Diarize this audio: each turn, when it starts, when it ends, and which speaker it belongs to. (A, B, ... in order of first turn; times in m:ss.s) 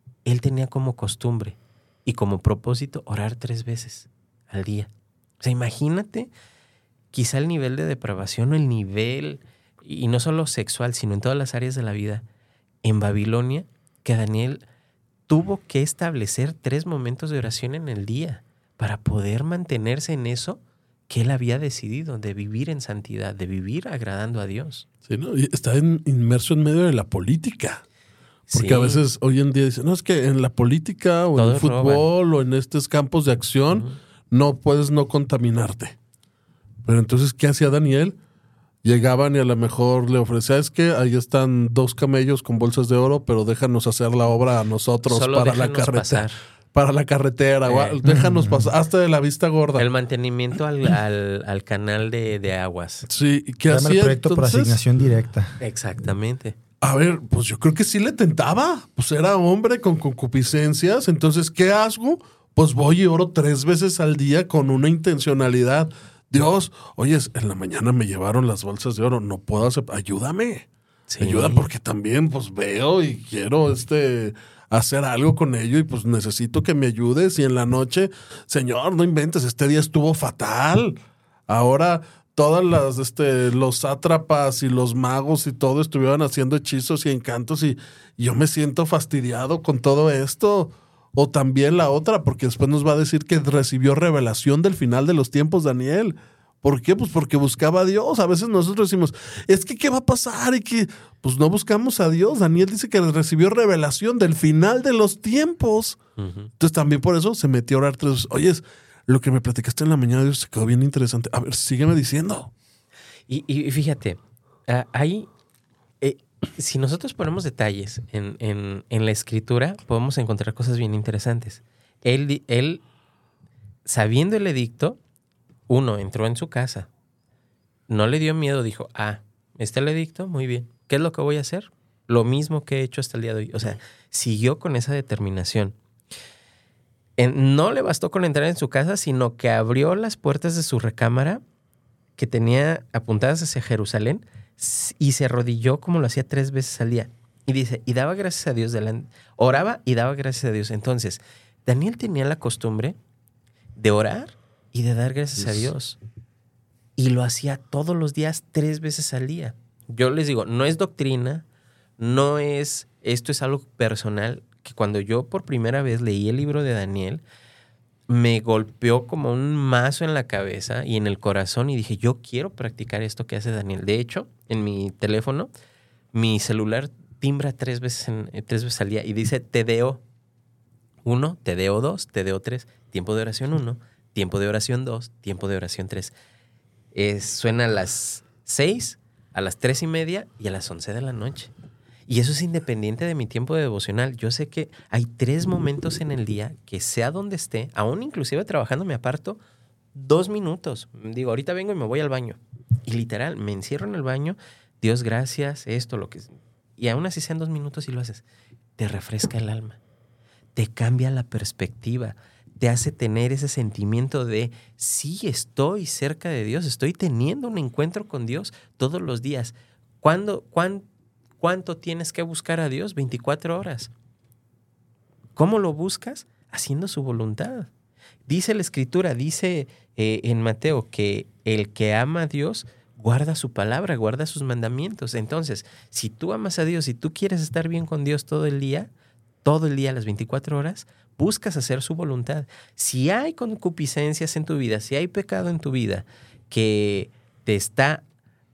0:00.3-0:04.9 A
0:05.4-0:06.3 A
0:07.1-0:12.2 A
0:12.8-0:14.6 A
0:15.3-0:24.8 A
0:25.1-0:27.8 B
0:28.5-0:29.0 A
0:28.5-0:36.0 B
0:31.4-0:32.1 A
0:36.8-0:38.2 B
0:38.8-0:49.8 B
0:45.1-0:46.4 A
0:47.6-0:48.0 A
0:48.0-0:48.7 C
0:49.8-0:53.1 A
0:53.1-0:54.8 B
0:53.7-0:55.6 C
0:55.6-0:56.6 A
0:56.8-1:10.7 B
1:11.1-1:11.6 A
1:11.2-1:46.0 B
1:46.2-1:46.5 A
1:46.6-1:52.5 B
1:53.3-1:55.3 A
1:56.0-2:02.8 A
2:03.9-2:05.0 A
2:05.7-2:06.9 A
2:07.9-2:15.8 A
2:17.2-2:21.4 A
2:22.2-2:33.0 A
2:33.8-2:36.0 A
2:37.0-2:41.4 A
2:42.0-2:47.2 A
2:48.1-2:55.5 A
2:56.1-3:00.0 A
3:01.0-3:06.1 A
3:06.9-3:11.5 A
3:12.1-3:19.4 A
3:19.9-3:28.2 A
3:28.8-3:29.8 A
3:30.6-3:40.8 A
3:41.4-3:43.9 A
3:45.4-3:47.7 A
3:48.3-3:58.9 A
3:59.4-4:08.0 A